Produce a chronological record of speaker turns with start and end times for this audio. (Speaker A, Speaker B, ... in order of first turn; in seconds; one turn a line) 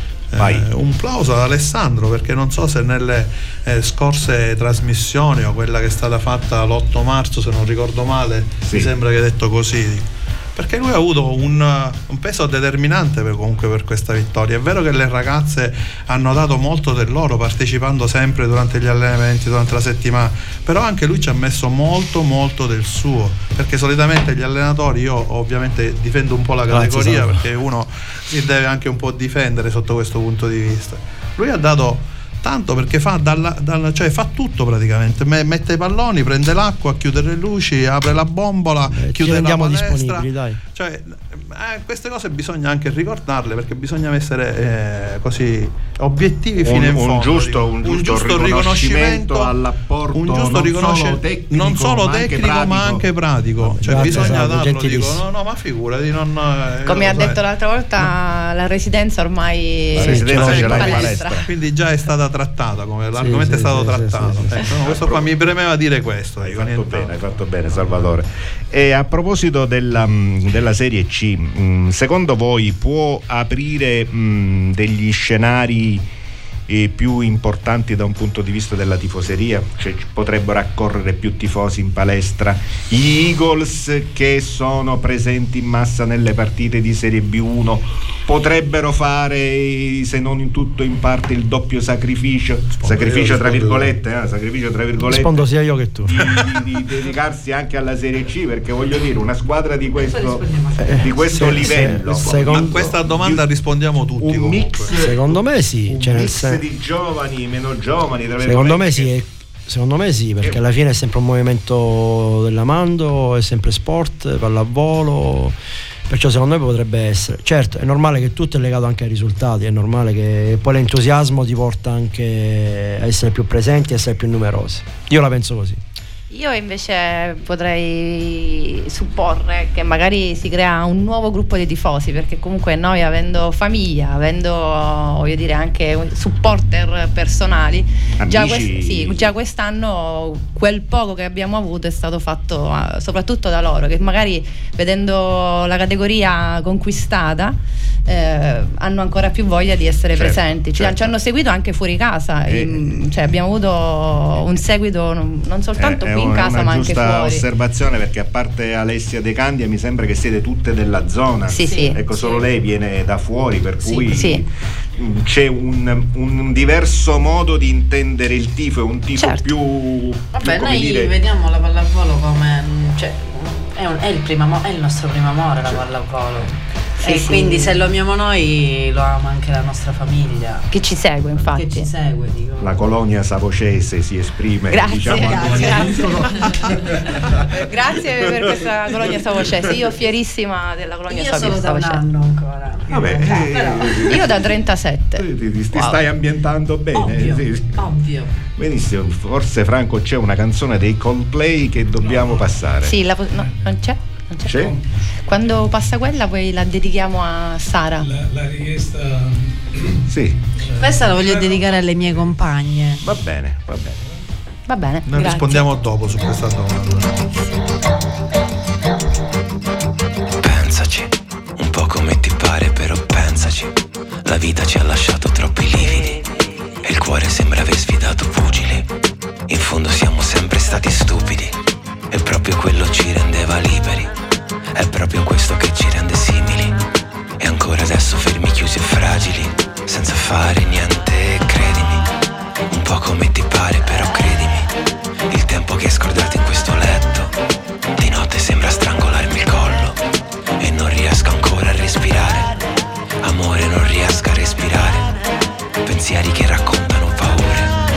Speaker A: 0.3-49.5
Speaker B: 0.4-0.7
Speaker B: 8.7-8.9
Speaker C: 26.7-27.4
Speaker C: 38.9-40.6
Speaker B: 46.6-53.0
Speaker A: 50.1-57.4
Speaker C: 53.8-55.2
Speaker B: 53.8-54.4
Speaker D: 56.9-61.4
Speaker B: 59.9-61.4
Speaker C: 60.0-60.6
Speaker A: 60.3-68.1
Speaker C: 63.1-64.6
Speaker B: 64.7-65.3
Speaker B: 66.4-76.0
Speaker B: 76.7-95.5
Speaker A: 92.8-93.9
Speaker C: 95.0-96.1
Speaker B: 96.0-103.5
Speaker A: 96.2-96.6
Speaker E: 99.9-101.7
Speaker C: 100.8-102.9
Speaker A: 101.8-104.9
Speaker B: 104.2-109.1
Speaker C: 104.9-106.6
Speaker C: 108.4-115.5
Speaker C: 116.1-125.8
Speaker D: 126.3-157.4
Speaker B: 138.2-139.3
Speaker B: 150.1-151.1
Speaker B: 152.4-153.0
Speaker B: 155.8-171.1
Speaker D: 161.5-162.0
Speaker E: 161.6-162.5
Speaker D: 163.8-164.4
Speaker D: 169.2-169.5
Speaker E: 170.3-180.7
Speaker D: 177.0-177.8
Speaker D: 180.7-181.9
Speaker E: 181.4-182.8
Speaker B: 182.6-186.7
Speaker D: 184.7-186.7
Speaker E: 184.9-186.9
Speaker D: 187.3-192.0
Speaker E: 191.1-194.2
Speaker B: 192.9-194.6
Speaker D: 193.9-196.0
Speaker B: 195.1-197.9
Speaker E: 196.9-198.3
Speaker B: 198.6-202.9
Speaker F: 201.9-202.7
Speaker D: 202.8-204.5
Speaker F: 203.3-203.7
Speaker B: 204.4-204.8
Speaker F: 204.5-204.8
Speaker D: 205.3-208.1
Speaker F: 208.0-210.1
Speaker B: 210.1-210.4
Speaker F: 210.6-212.5
Speaker E: 210.8-213.0
Speaker B: 213.0-214.0
Speaker D: 214.7-215.7
Speaker A: 215.1-217.2
Speaker G: 220.4-223.7
Speaker G: 224.2-226.2
Speaker G: 226.8-228.9
Speaker G: 229.5-231.6
Speaker G: 232.1-234.1
Speaker G: 234.7-236.8
Speaker G: 237.4-242.1
Speaker G: 242.7-244.7
Speaker G: 245.3-247.3
Speaker G: 248.0-250.0
Speaker G: 250.6-252.6
Speaker G: 253.2-255.2
Speaker G: 255.8-257.8